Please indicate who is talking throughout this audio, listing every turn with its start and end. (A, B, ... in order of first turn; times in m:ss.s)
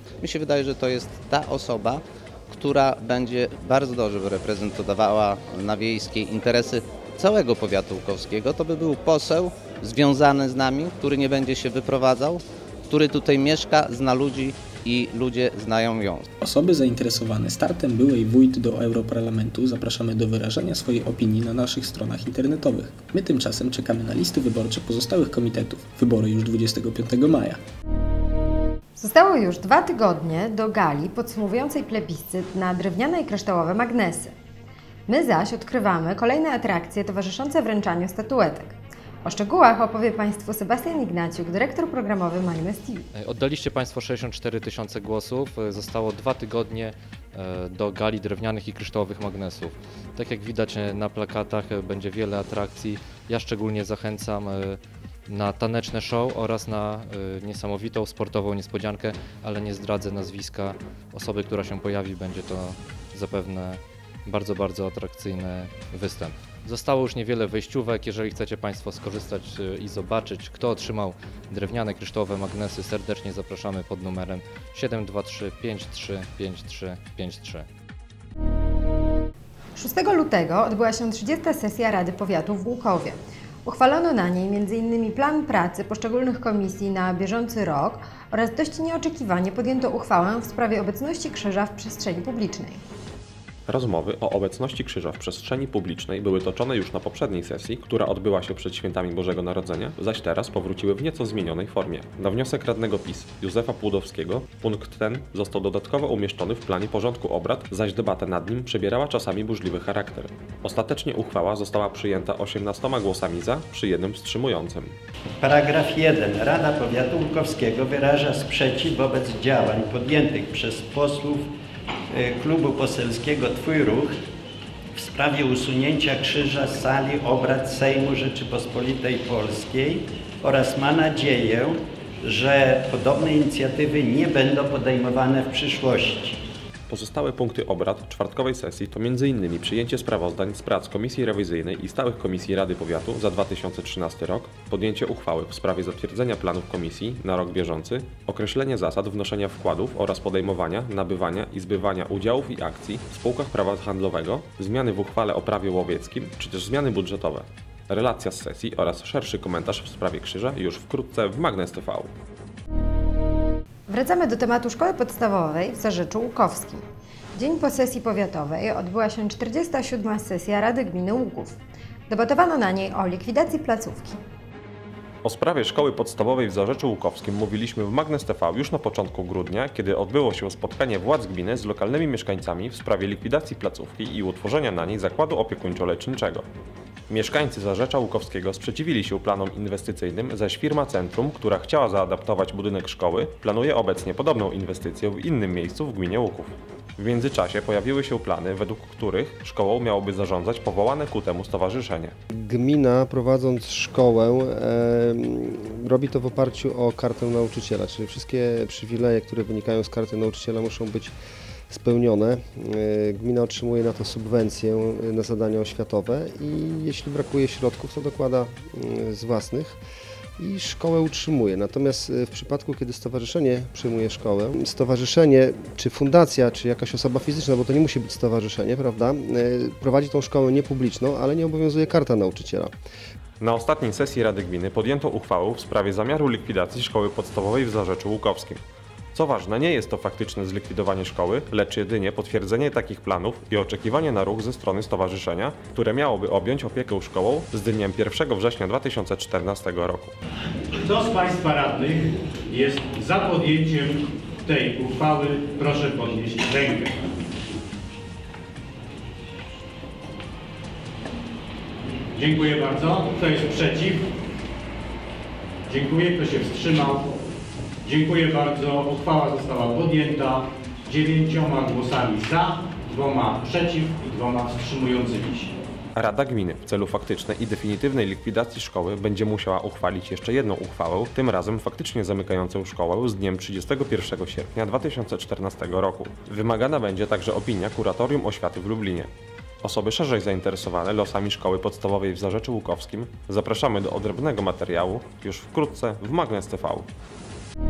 0:00.2-0:16.2 A
0:16.4-0:27.6 B
0:29.0-0:34.3 C
0:35.1-0:43.1 C
0:43.1-1:17.7 D
1:19.8-1:32.8 C
1:33.7-1:55.0 E
1:55.4-2:01.5 F
2:02.1-2:04.2 F
2:05.0-2:16.4 F
2:16.9-2:42.1 E
2:43.9-2:46.8 C
2:47.4-2:51.6 C
2:52.1-2:54.2 C
2:55.2-3:06.5 E
3:07.1-3:22.1 E
3:22.3-3:31.2 G
3:31.7-3:39.8 G
3:40.4-3:52.7 G
3:53.4-3:58.6 E
3:59.1-4:10.1 E
4:10.8-4:16.9 H
4:22.2-4:24.1 H
4:25.7-4:27.1 H
4:27.8-4:35.5 H
4:36.0-4:49.1 E
4:49.6-4:56.9 E